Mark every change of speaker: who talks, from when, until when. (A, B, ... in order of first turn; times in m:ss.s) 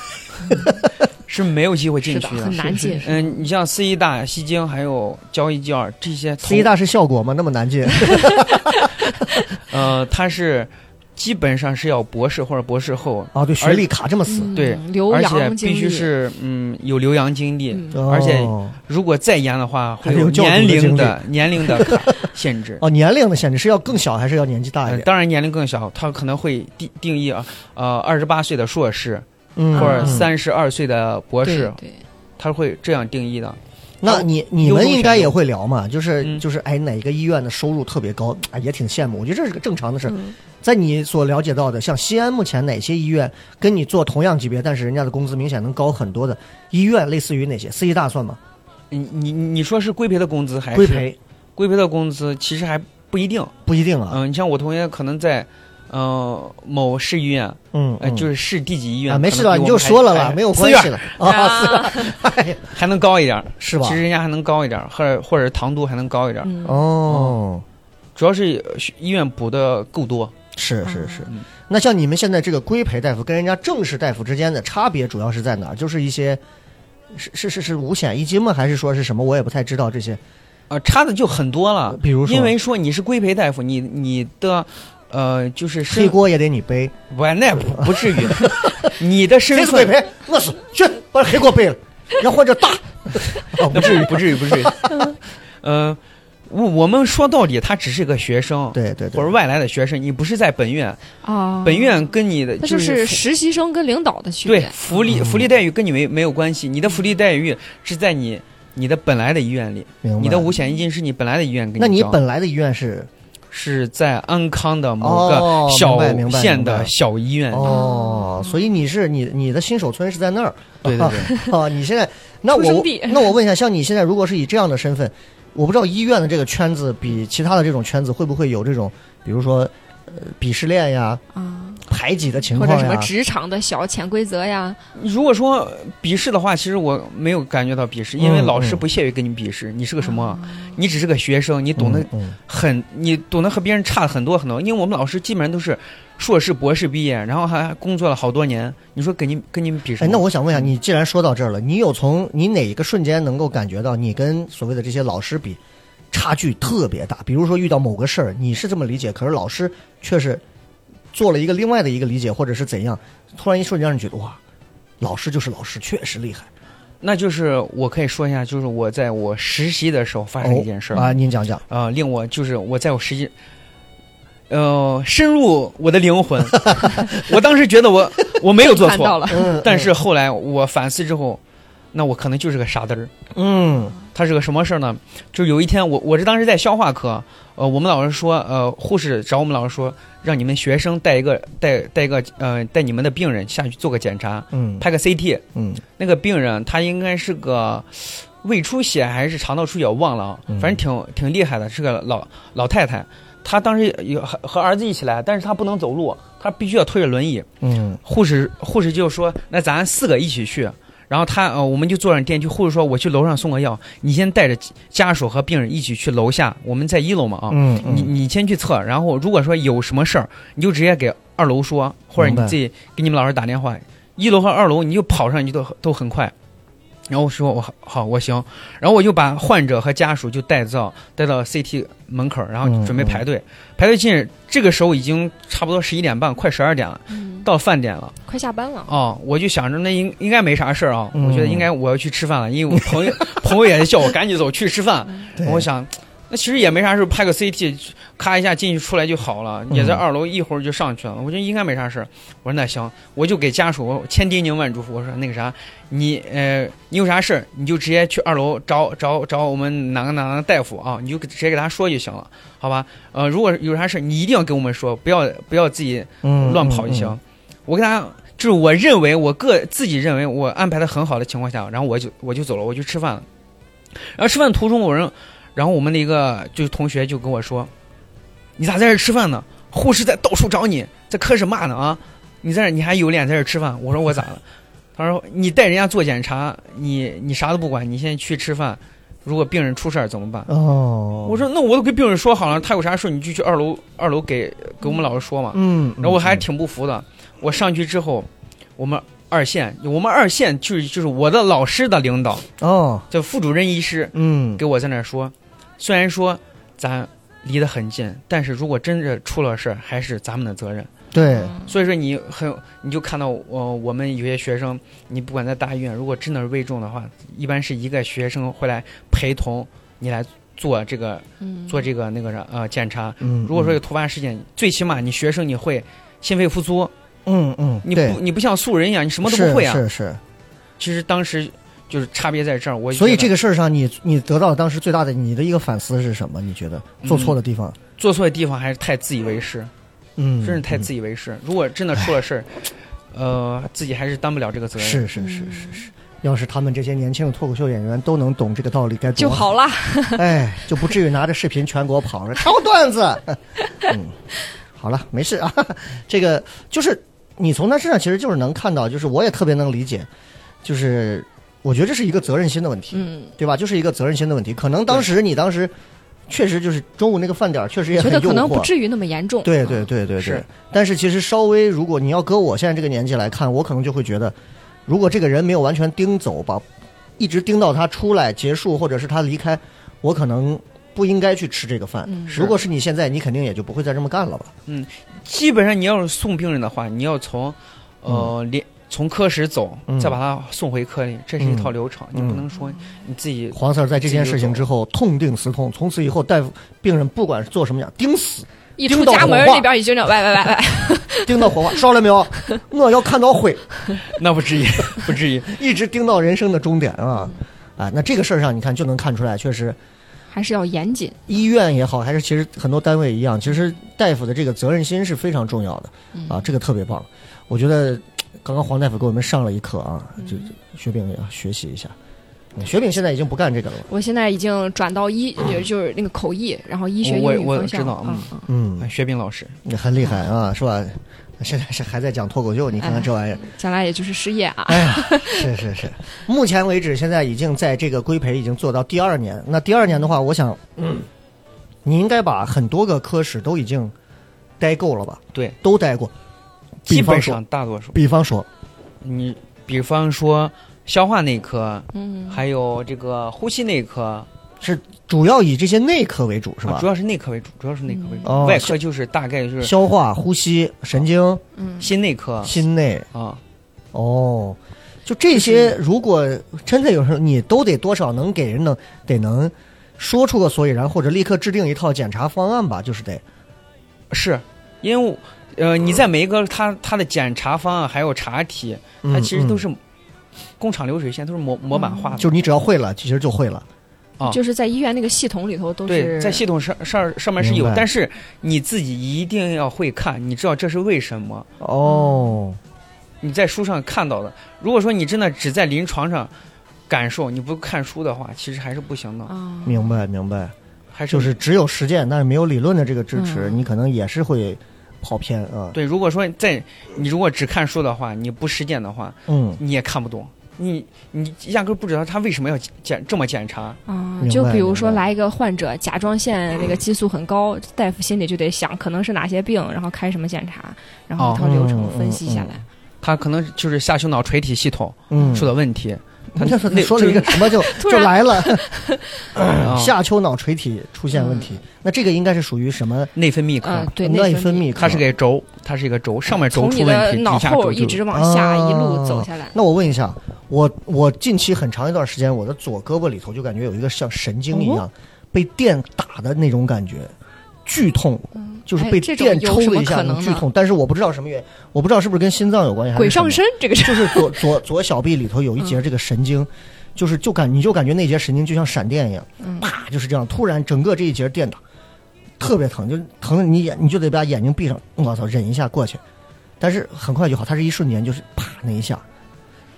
0:01.3-0:06.7 A
0:02.1-0:03.4 B
0:06.4-0:09.1 C
0:09.7-0:13.9 A
0:13.3-0:14.5 C
0:14.3-0:16.1 B
0:14.6-0:22.8 A
0:17.7-0:18.0 B
0:17.9-0:18.8 C
0:20.0-0:22.2 C
0:22.8-0:25.1 C
0:24.9-0:31.8 A
0:29.6-0:30.3 C
0:29.7-0:30.2 B
0:31.4-0:32.0 B
0:32.4-0:35.4 A
0:34.0-0:48.4 C
0:40.1-0:40.3 B
0:48.9-0:53.5 A
0:50.7-0:51.2 C
0:53.6-0:54.2 C
0:54.1-1:01.1 A
0:57.7-0:58.3 C
0:59.1-1:02.7 C
1:01.2-1:02.1 B
1:02.7-1:06.5 A
1:03.6-1:04.0 C
1:06.4-1:06.8 B
1:06.6-1:07.6 C
1:07.1-1:07.4 A
1:08.2-1:10.4 A
1:10.6-1:16.4 C
1:10.8-1:11.3 B
1:17.1-1:20.2 C
1:20.7-1:26.2 A
1:21.9-1:22.6 C
1:25.9-1:26.9 C
1:27.1-1:30.0 A
1:27.8-1:28.9 C
1:29.5-1:35.0 C
1:33.6-1:34.8 A
1:34.9-1:35.1 B
1:35.6-1:41.0 A
1:38.7-1:39.3 C
1:41.2-1:45.2 B
1:41.6-1:43.3 A
1:44.4-1:52.2 A
1:45.1-1:45.5 C
1:50.0-1:50.5 C
1:51.8-1:53.1 C
1:53.5-1:57.8 A
1:55.0-1:56.9 C
1:57.5-2:11.2 C
1:57.6-1:58.6 B
2:00.8-2:01.3 A
2:02.5-2:03.3 B
2:11.3-2:11.8 B
2:11.8-2:13.1 C
2:12.5-2:14.8 B
2:15.0-2:30.7 A
2:18.2-2:18.8 C
2:20.0-2:20.7 B
2:21.8-2:22.4 C
2:30.0-2:35.6 C
2:36.1-2:40.4 C
2:41.1-2:44.4 C
2:45.0-2:46.5 C
2:47.0-2:51.1 A
2:50.4-2:51.6 C
2:51.7-2:53.3 A
2:54.5-3:01.4 A
2:58.6-2:59.6 B
2:59.3-2:59.9 C
3:01.9-3:03.1 A
3:03.4-3:04.0 C
3:04.1-3:15.4 A
3:14.5-3:14.9 C
3:15.6-3:15.8 C
3:16.0-3:27.5 A
3:20.5-3:20.8 C
3:27.6-3:28.0 C
3:28.0-3:46.3 A
3:37.5-3:38.1 C
3:42.2-3:42.6 C
3:47.1-3:58.2 A
3:52.6-3:53.2 C
3:57.1-3:57.5 B
3:58.3-3:58.9 B
3:58.9-4:33.2 A
4:01.1-4:01.7 C
4:05.4-4:05.7 C
4:09.7-4:10.0 C
4:26.2-4:27.2 C
4:33.9-4:37.7 A
4:38.6-4:44.4 A
4:45.0-4:50.5 A
4:50.5-4:51.4 C
4:51.2-5:02.5 A
4:55.5-4:56.4 C
5:02.6-5:03.1 C
5:03.1-5:10.9 A
5:04.1-5:04.6 C
5:11.1-5:11.5 C
5:11.3-5:11.7 B
5:11.6-5:26.9 A
5:21.4-5:21.8 B
5:23.2-5:23.8 C
5:27.2-5:28.2 C
5:27.8-5:29.8 A
5:29.2-5:30.2 C
5:30.8-5:33.3 A
5:32.9-5:37.8 C
5:37.0-5:37.4 A
5:38.0-5:39.7 A
5:40.2-5:40.9 C
5:40.4-5:45.1 A
5:44.8-5:49.5 C
5:45.2-5:45.9 B
5:49.2-5:50.9 B
5:50.2-5:54.2 C
5:54.8-6:00.1 C
6:00.6-6:05.7 C
6:02.9-6:03.3 B
6:06.3-6:08.7 C
6:08.0-6:09.8 B
6:09.4-6:14.4 C
6:14.9-6:16.6 C
6:17.2-6:24.5 C
6:22.1-6:22.5 B
6:24.6-6:34.7 A
6:29.9-6:30.2 C
6:31.4-6:32.4 C
6:33.5-6:39.7 C
6:38.8-6:41.5 B
6:41.2-6:43.6 C
6:44.1-6:45.6 A
6:45.5-6:49.8 C
6:50.3-6:51.2 B
6:51.3-7:01.9 C
6:56.1-6:56.4 B
7:00.2-7:00.5 B
7:02.6-7:03.9 C
7:03.9-7:08.5 B
7:07.0-7:09.5 A
7:08.5-7:08.9 C
7:09.6-7:13.4 C
7:12.8-7:15.6 B
7:14.7-7:21.1 C
7:21.8-7:23.9 C
7:24.6-7:26.1 C
7:26.9-7:27.4 C
7:26.9-7:28.0 A
7:27.9-7:28.5 C
7:29.0-7:34.3 A
7:31.9-7:32.4 B
7:34.6-7:36.9 C
7:36.6-7:39.8 A
7:37.9-7:38.5 B
7:38.2-7:38.8 C
7:39.6-7:41.4 C
7:41.6-7:41.9 B
7:41.8-7:42.6 A
7:42.4-7:43.1 C
7:43.1-7:43.4 A
7:43.9-7:53.2 C
7:45.4-7:45.7 A
7:54.1-7:59.8 A
7:59.0-7:59.6 C
8:00.6-8:02.3 A
8:01.7-8:02.2 B
8:02.2-8:03.6 C
8:04.2-8:06.4 B
8:05.9-8:11.5 A
8:07.4-8:07.9 C
8:11.6-8:12.6 C
8:11.8-8:12.4 B
8:13.2-8:16.3 A
8:16.9-8:19.3 A
8:19.3-8:19.9 B
8:19.6-8:20.5 C
8:20.9-8:21.4 A
8:21.1-8:25.8 C
8:23.2-8:23.6 B
8:25.7-8:33.8 A
8:29.3-8:29.6 C
8:33.9-8:42.6 B
8:34.2-8:35.0 C
8:41.2-8:41.4 A
8:41.4-8:42.6 C
8:43.0-8:47.6 A
8:45.1-8:45.5 C
8:46.4-8:48.6 C
8:47.3-8:49.3 B
8:49.4-8:53.1 C
8:49.6-8:49.9 A
8:51.1-8:51.6 B
8:53.2-8:53.9 A
8:53.6-8:55.0 B
8:53.9-8:55.0 C
8:54.8-8:58.0 A
8:56.3-8:59.5 B
8:58.1-9:07.1 C
9:04.5-9:04.9 B
9:07.6-9:21.6 C
9:08.4-9:10.5 B
9:13.0-9:14.5 B
9:19.4-9:19.7 B
9:22.4-9:26.0 C
9:26.6-9:29.0 C